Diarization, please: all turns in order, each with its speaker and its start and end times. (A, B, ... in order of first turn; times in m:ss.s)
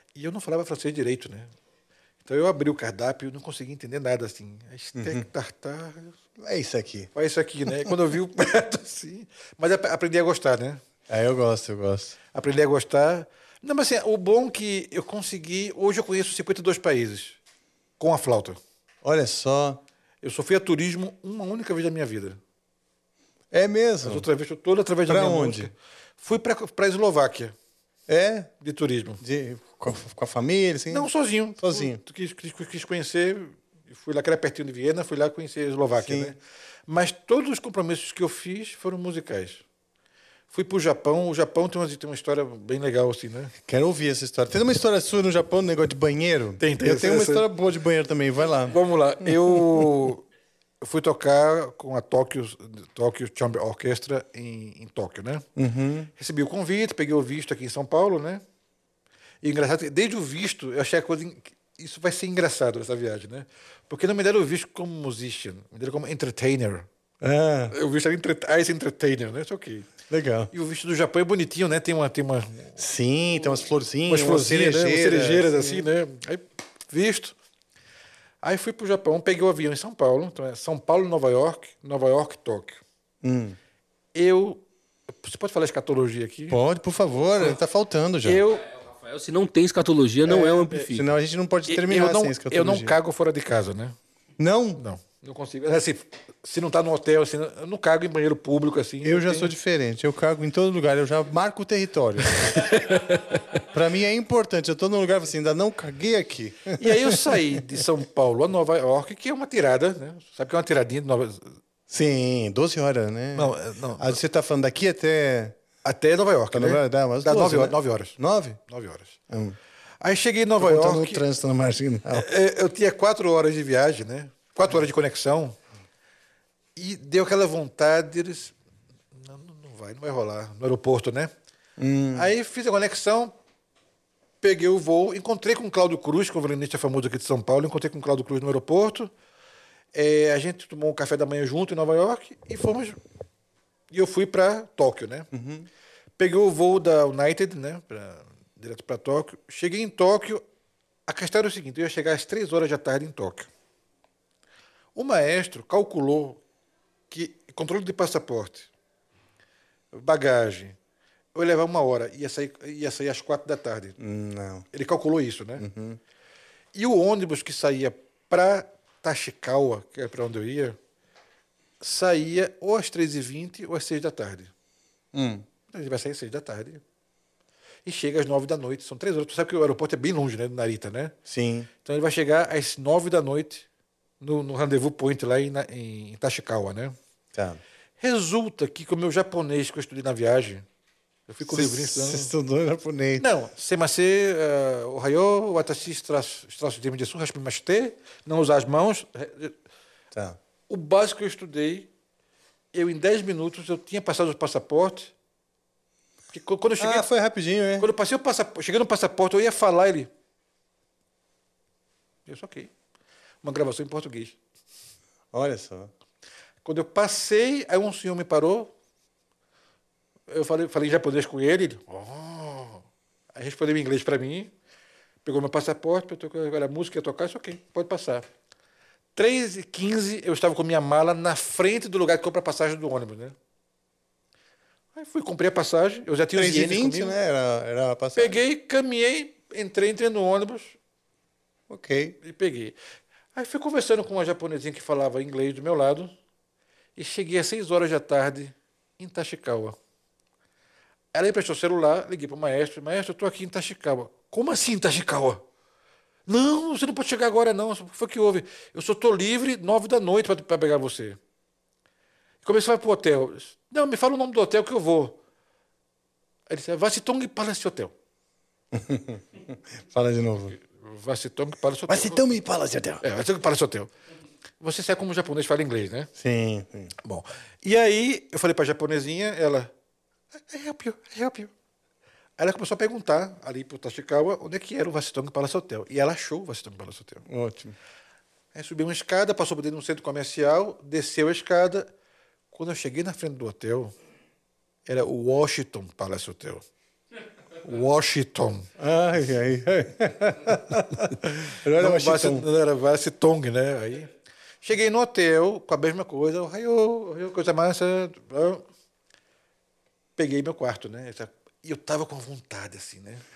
0:00.1-0:01.5 A
0:02.2-0:06.2 A
0:05.0-0:05.2 B
0:06.4-0:07.1 B
0:07.1-0:10.8 A
0:07.6-0:07.9 B
0:11.1-0:12.2 B
0:12.3-0:17.4 A
0:18.0-0:18.6 A
0:19.0-0:19.8 B
0:20.2-0:22.4 A
0:23.5-0:24.3 B
0:24.0-0:27.5 A
0:25.1-0:25.7 B
0:28.1-0:28.5 B
0:28.6-0:29.2 A
0:29.2-0:31.1 B
0:30.9-0:39.6 A
0:31.6-0:32.0 B
0:36.0-0:36.3 B
0:40.5-0:43.5 A
0:43.6-0:49.9 B
0:46.6-0:47.4 A
0:48.6-0:50.2 A
0:50.8-0:55.4 A
0:55.6-0:56.1 B
0:56.2-0:58.4 A
0:59.4-1:06.9 A
1:07.2-1:07.7 B
1:07.7-1:09.9 A
1:10.1-1:10.5 B
1:10.5-1:12.8 A
1:12.8-1:15.9 B
1:14.0-1:17.3 A
1:18.4-1:22.8 A
1:23.2-1:23.6 B
1:24.1-1:24.6 A
1:25.2-1:26.6 A
1:26.5-1:28.4 B
1:28.2-1:28.6 A
1:28.7-1:31.1 C
1:30.2-1:32.9 B
1:31.7-1:34.0 A
1:34.4-1:34.8 B
1:34.8-1:39.5 A
1:39.0-1:42.8 B
1:42.3-1:43.4 A
1:43.7-1:47.8 B
1:46.8-1:51.4 A
1:51.9-1:55.6 B
1:53.3-1:54.2 A
1:55.8-1:58.2 A
1:56.5-1:58.6 B
1:58.7-1:59.2 A
1:59.3-1:59.6 B
2:00.0-2:01.2 A
2:00.6-2:02.2 B
2:02.1-2:05.6 A
2:06.8-2:08.5 A
2:09.1-2:11.3 A
2:11.8-2:12.3 B
2:12.1-2:13.3 A
2:14.4-2:19.1 A
2:19.9-2:23.0 A
2:23.9-2:25.3 A
2:25.3-2:25.7 B
2:26.2-2:30.4 A
2:31.1-2:33.5 A
2:34.9-2:36.4 A
2:37.1-2:38.7 A
2:39.9-2:40.8 A
2:41.3-2:44.0 A
2:44.0-2:44.7 B
2:44.7-2:45.6 A
2:45.6-2:46.0 B
2:46.7-2:50.8 A
2:51.8-2:54.5 A
2:55.1-2:55.4 B
2:55.7-2:56.8 A
2:57.8-3:01.2 A
3:01.3-3:01.7 B
3:01.8-3:03.6 A
3:04.2-3:07.0 A
3:07.3-3:07.6 B
3:08.0-3:10.6 A
3:11.3-3:12.3 A
3:11.4-3:13.3 B
3:13.2-3:19.5 A
3:20.1-3:20.4 B
3:20.7-3:21.9 A
3:22.7-3:25.1 A
3:26.3-3:27.1 A
3:26.8-3:27.9 B
3:27.8-3:30.1 A
3:32.2-3:32.7 A
3:33.4-3:34.4 A
3:35.3-3:35.9 B
3:36.6-3:38.7 A
3:40.3-3:44.5 A
3:45.2-3:48.2 A
3:49.2-3:53.3 A
3:54.9-3:57.2 A
3:56.3-3:58.4 B
3:58.2-4:00.8 A
4:01.7-4:02.2 B
4:02.2-4:02.8 A
4:03.3-4:06.1 A
4:07.0-4:09.8 A
4:11.1-4:15.4 A
4:16.3-4:21.2 A
4:22.4-4:25.2 A
4:26.5-4:27.9 A
4:28.7-4:30.6 B
4:30.6-4:32.2 A
4:31.9-4:33.0 B
4:33.0-4:33.9 A
4:34.6-4:36.1 A
4:36.2-4:36.9 B
4:37.0-4:39.7 A
4:40.5-4:41.5 A
4:42.4-4:47.2 A
4:47.3-4:47.8 B
4:48.5-4:51.9 A
4:52.5-4:53.9 A
4:54.8-4:56.6 A
4:57.6-4:58.7 A
4:58.8-5:02.5 B
5:01.2-5:04.1 A
5:04.6-5:08.6 A
5:10.2-5:13.2 A